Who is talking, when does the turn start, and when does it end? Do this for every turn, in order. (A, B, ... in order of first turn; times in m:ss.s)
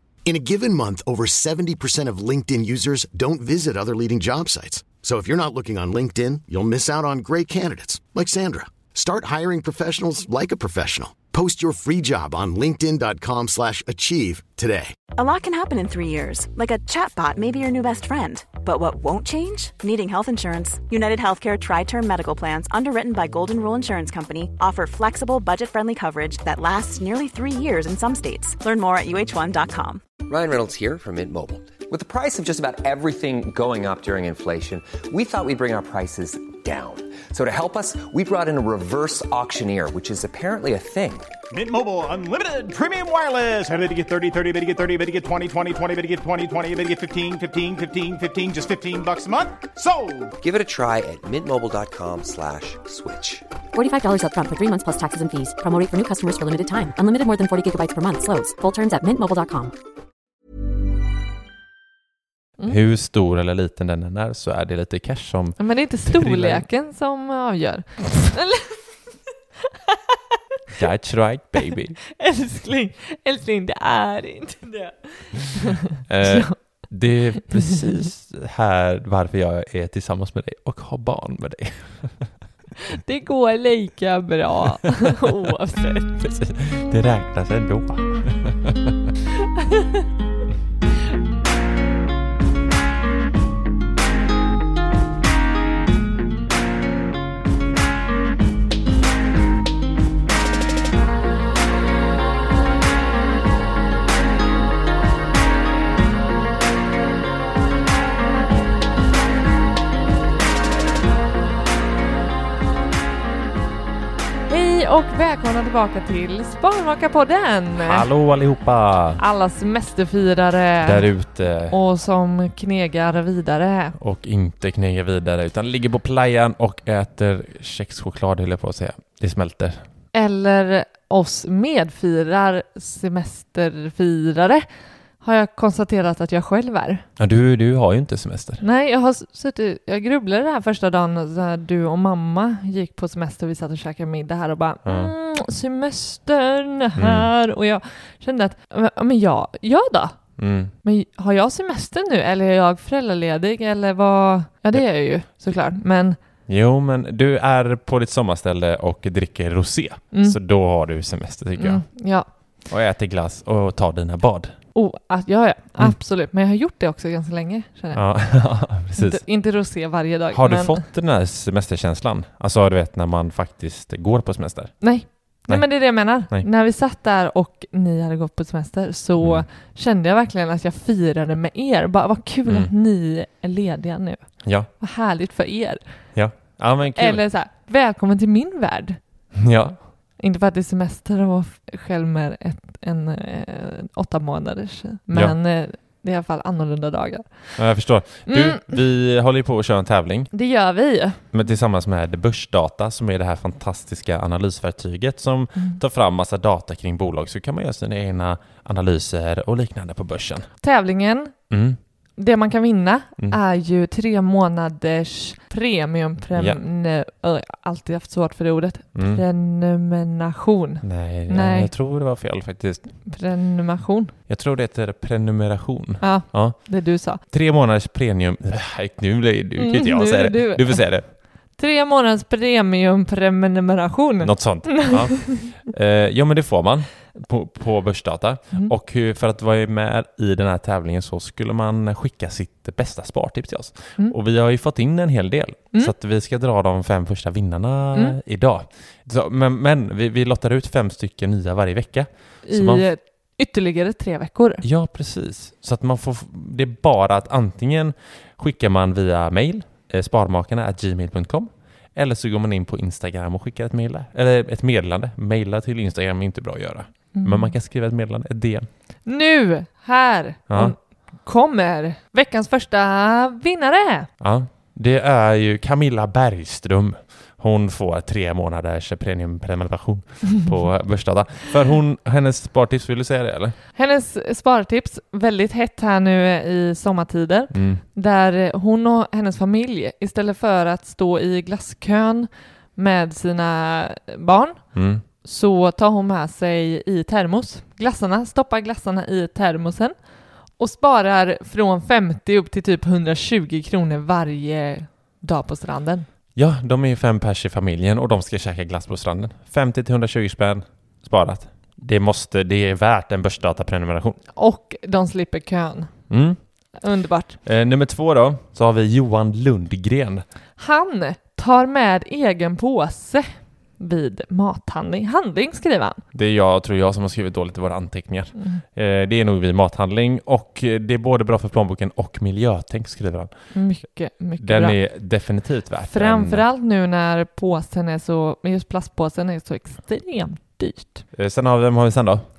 0:00.2-0:14.9 A
0:15.2-0:30.0 B
0:30.3-0:41.3 C
0:41.5-0:50.4 D
0:50.4-0:53.4 C
0:53.7-0:59.7 E
1:02.6-1:06.7 F
1:05.6-1:08.8 G
1:10.7-1:12.0 F
1:12.2-1:16.9 G
1:16.1-1:22.4 F
1:23.0-1:26.1 G
1:26.2-1:28.9 F
1:54.5-1:58.1 G
1:57.8-1:59.2 F
1:59.2-2:04.0 G
2:00.8-2:01.8 F
2:04.0-2:09.8 F
2:10.1-2:14.7 G
2:15.2-2:17.0 G
2:17.2-2:18.6 F
2:18.6-2:30.2 G
2:24.8-2:25.1 F
2:27.0-2:27.3 F
2:30.4-2:30.7 F
2:30.8-2:36.2 G
2:36.5-2:44.6 F
2:40.1-2:40.4 G
2:41.6-2:42.6 G
2:44.7-2:50.9 G
2:47.9-2:49.2 F
2:50.3-2:56.4 F
2:54.8-3:06.1 G
2:59.2-2:59.5 F
3:04.4-3:04.7 F
3:06.1-3:07.2 F
3:06.9-3:09.2 G
3:09.4-3:09.9 F
3:10.2-3:18.8 G
3:17.6-3:20.3 F
3:20.3-3:21.5 G
3:21.3-3:30.5 F
3:25.5-3:25.8 G
3:30.6-3:31.4 G
3:31.5-3:31.8 F
3:32.2-3:41.7 G
3:36.3-3:36.6 F
3:38.9-3:39.2 F
3:40.8-3:43.0 F
3:43.0-3:44.1 G
3:44.3-3:51.1 F
3:46.0-3:47.2 G
3:49.6-3:55.6 G
3:54.2-4:12.9 F
4:12.4-4:14.6 G
4:14.6-4:28.7 F
4:27.1-4:27.5 G
4:29.0-4:34.1 G
4:30.5-4:30.7 F
4:34.2-4:43.6 F
4:43.7-5:06.1 G
4:47.5-4:47.8 F
4:54.7-4:55.0 F
5:06.3-5:14.2 F
5:14.4-5:17.4 G
5:16.1-5:16.8 F
5:17.4-5:20.2 F
5:20.6-5:26.0 G
5:26.1-5:33.6 F
5:28.3-5:28.6 G
5:33.5-5:34.8 G
5:34.4-5:36.4 F
5:35.9-5:41.0 G
5:41.1-5:42.3 F